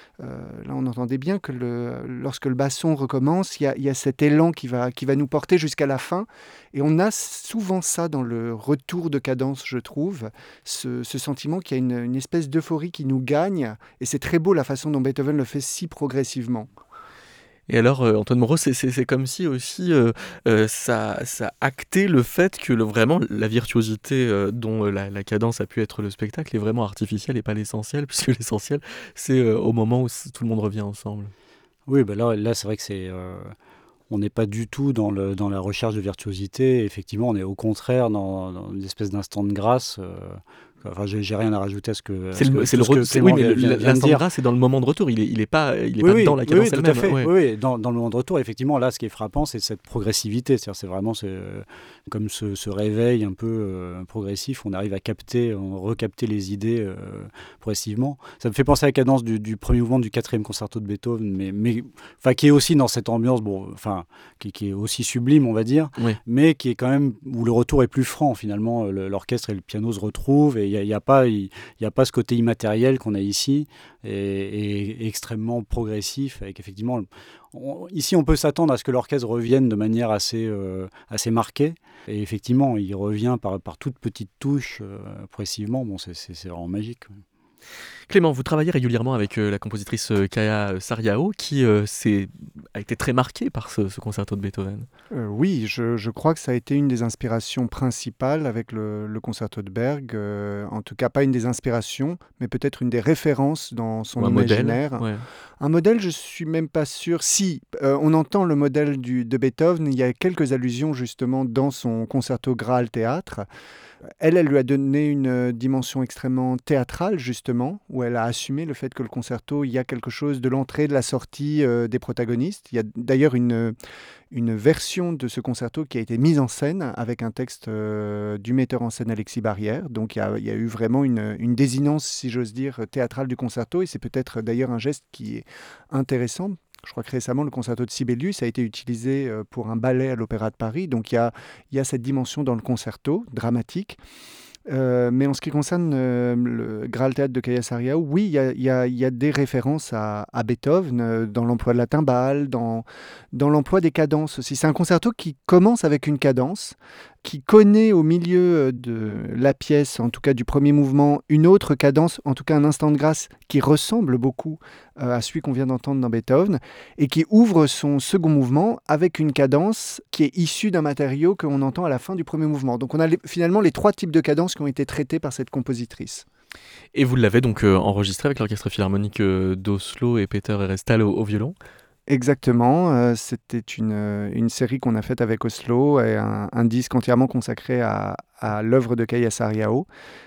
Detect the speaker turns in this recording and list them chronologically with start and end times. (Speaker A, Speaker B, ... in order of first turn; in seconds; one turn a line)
Speaker A: 0.2-16.7
Speaker B: 17.7-31.3
Speaker C: 31.9-33.5
Speaker C: 34.1-44.2
Speaker B: 42.3-47.3
Speaker C: 46.0-87.2
Speaker B: 88.1-94.9
Speaker A: 95.1-105.0
Speaker B: 104.2-105.2
Speaker A: 105.6-113.5
Speaker A: 114.2-123.7
Speaker A: 124.3-144.0
Speaker A: 144.7-176.2
Speaker B: 176.9-181.5
Speaker A: 182.1-189.9